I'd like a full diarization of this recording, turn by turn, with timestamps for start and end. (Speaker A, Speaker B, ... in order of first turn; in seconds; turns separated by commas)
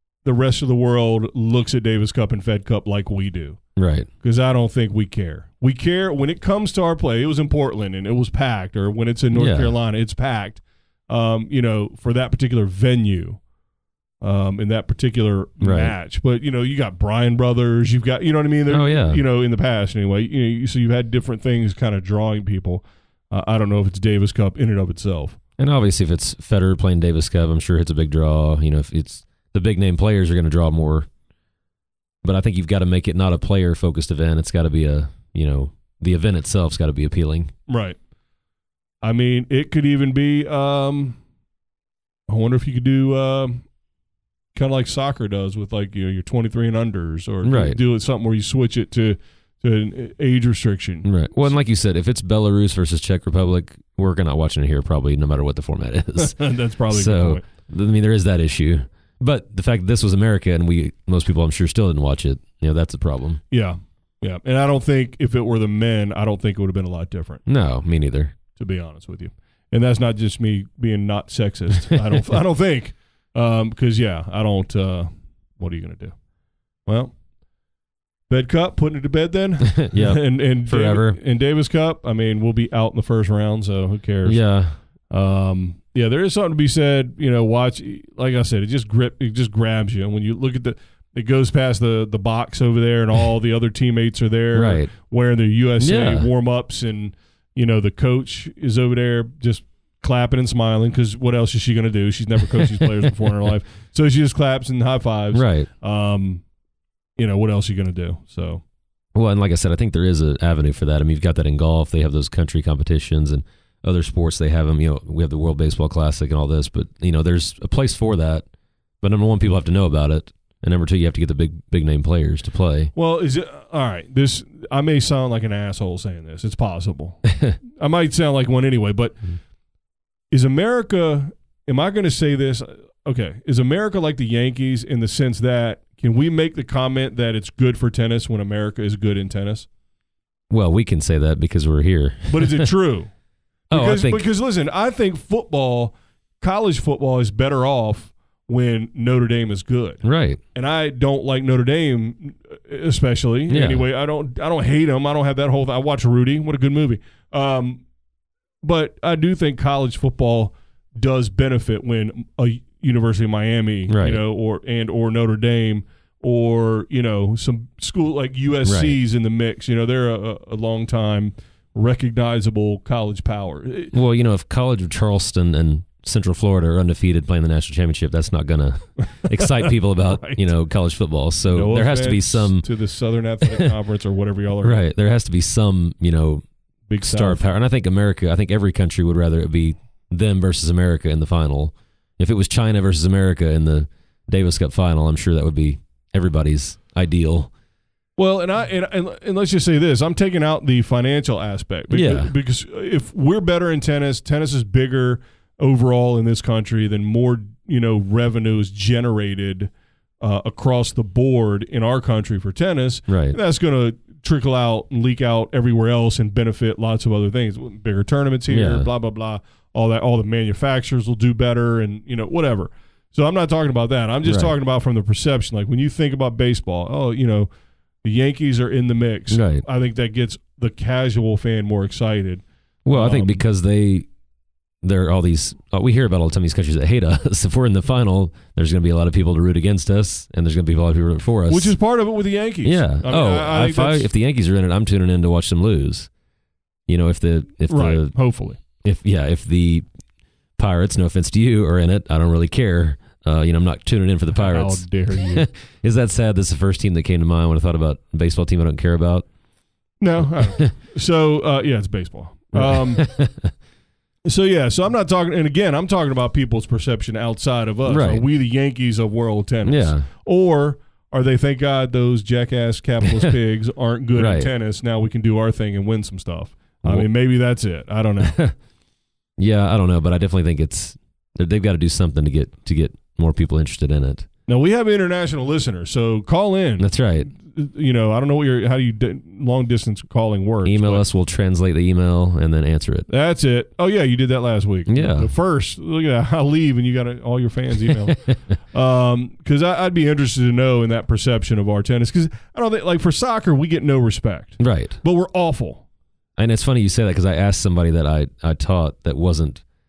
Speaker A: 0.2-3.6, Speaker B: 3.8-4.1, Speaker A: 4.2-13.4, Speaker B: 9.3-9.7, Speaker A: 14.2-25.4, Speaker B: 15.6-15.9, Speaker B: 18.7-19.2, Speaker B: 25.6-31.1, Speaker B: 32.2-37.5, Speaker A: 37.7-38.0, Speaker A: 39.0-41.2, Speaker A: 42.3-43.6, Speaker A: 44.5-51.6, Speaker B: 47.4-47.8, Speaker B: 51.0-63.4, Speaker A: 56.1-57.5, Speaker A: 63.5-67.4, Speaker B: 67.5-68.4, Speaker A: 68.5-76.1, Speaker A: 76.9-77.1, Speaker A: 78.3-84.4, Speaker B: 79.8-81.2, Speaker B: 84.2-84.8, Speaker A: 85.1-106.4, Speaker B: 94.5-94.9, Speaker B: 95.8-96.3, Speaker B: 105.3-105.7, Speaker A: 107.2-108.6, Speaker B: 109.1-118.5, Speaker B: 119.0-122.9, Speaker A: 122.9-129.3, Speaker A: 130.3-139.7, Speaker B: 140.5-142.7, Speaker A: 142.3-143.1, Speaker A: 143.7-150.0, Speaker B: 143.7-144.3, Speaker B: 150.0-150.4, Speaker A: 150.6-157.8, Speaker B: 153.5-153.8, Speaker A: 158.6-173.9, Speaker B: 163.9-164.2, Speaker B: 168.7-169.0, Speaker B: 173.9-182.7, Speaker A: 179.2-180.4, Speaker A: 181.5-184.8, Speaker B: 184.6-186.4, Speaker A: 186.9-187.4, Speaker B: 187.0-197.5, Speaker A: 198.2-227.5, Speaker B: 201.9-202.3, Speaker B: 213.1-213.4, Speaker B: 218.5-218.9, Speaker B: 224.2-224.5, Speaker A: 228.0-233.4, Speaker B: 229.3-229.6, Speaker B: 232.9-234.1, Speaker B: 234.8-241.8, Speaker A: 241.5-244.1, Speaker B: 242.6-246.1, Speaker B: 246.9-248.1, Speaker A: 247.7-248.6, Speaker B: 248.8-249.9, Speaker B: 250.6-259.3, Speaker A: 254.3-255.5, Speaker A: 260.0-263.1, Speaker B: 260.2-260.7, Speaker B: 262.5-263.5, Speaker A: 264.3-278.4, Speaker B: 267.9-268.3, Speaker B: 269.6-270.1, Speaker B: 273.1-273.4, Speaker B: 274.1-274.5, Speaker B: 278.2-278.5, Speaker B: 279.4-284.3, Speaker A: 284.5-291.1, Speaker B: 286.8-287.3, Speaker B: 290.6-293.1, Speaker A: 293.1-298.2, Speaker B: 294.9-295.3, Speaker B: 297.9-298.3, Speaker A: 298.7-305.8, Speaker B: 304.6-305.0, Speaker B: 306.4-309.6